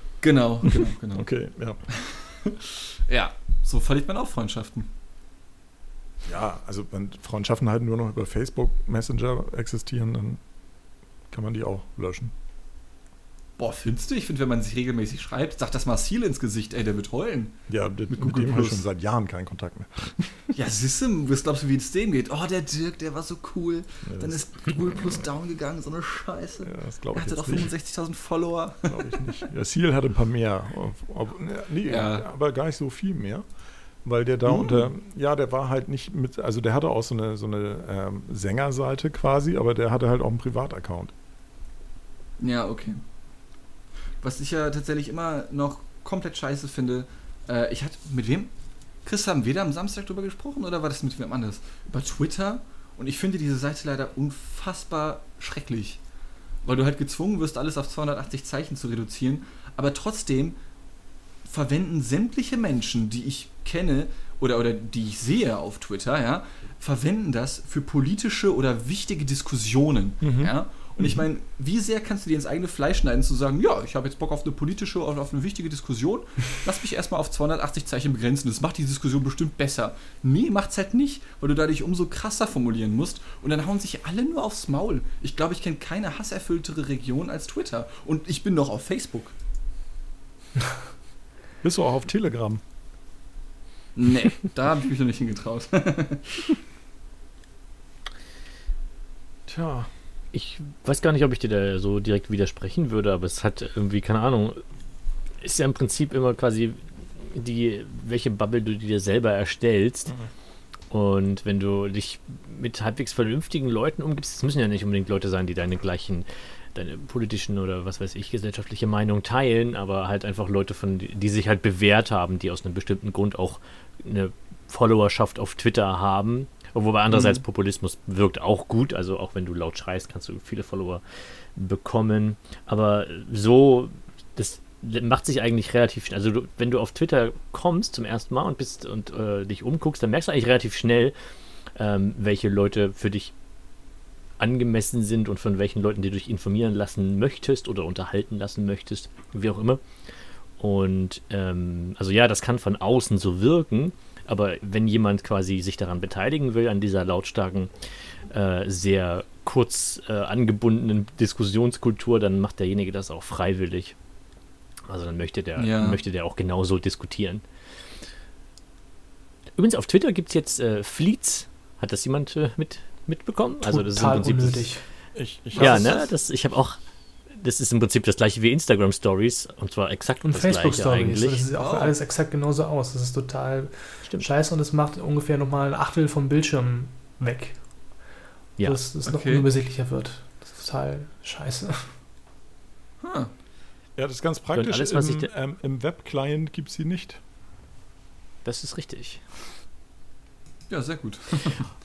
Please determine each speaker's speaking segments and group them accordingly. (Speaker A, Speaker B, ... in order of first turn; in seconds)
Speaker A: 0.2-1.3, 1.9-4.9, 13.6-17.6, 18.1-18.8, 20.5-29.3, 31.9-32.2, 34.5-34.9, 42.4-43.0, 44.2-48.5, 49.0-56.0, 56.6-60.6, 61.5-89.3, 94.0-96.5, 127.1-127.4, 165.6-166.0, 175.6-176.1, 181.5-181.9, 189.0-189.5, 193.0-193.3, 200.7-201.7
Speaker B: 0.6-1.8, 6.2-10.4, 11.3-12.3, 17.7-20.5, 24.1-24.4, 26.6-27.7, 28.9-33.4, 34.0-41.1, 70.2-71.2, 91.6-92.6, 99.5-99.9, 175.1-176.0, 193.9-197.2
Speaker C: 100.3-104.6, 105.4-110.1, 110.9-141.1, 141.7-143.3, 144.4-149.8, 150.6-163.9, 164.9-167.4, 169.6-174.7, 175.6-176.8, 177.3-181.5, 194.5-195.3, 198.4-199.2
Speaker D: 173.6-174.8, 180.2-187.6, 188.6-191.9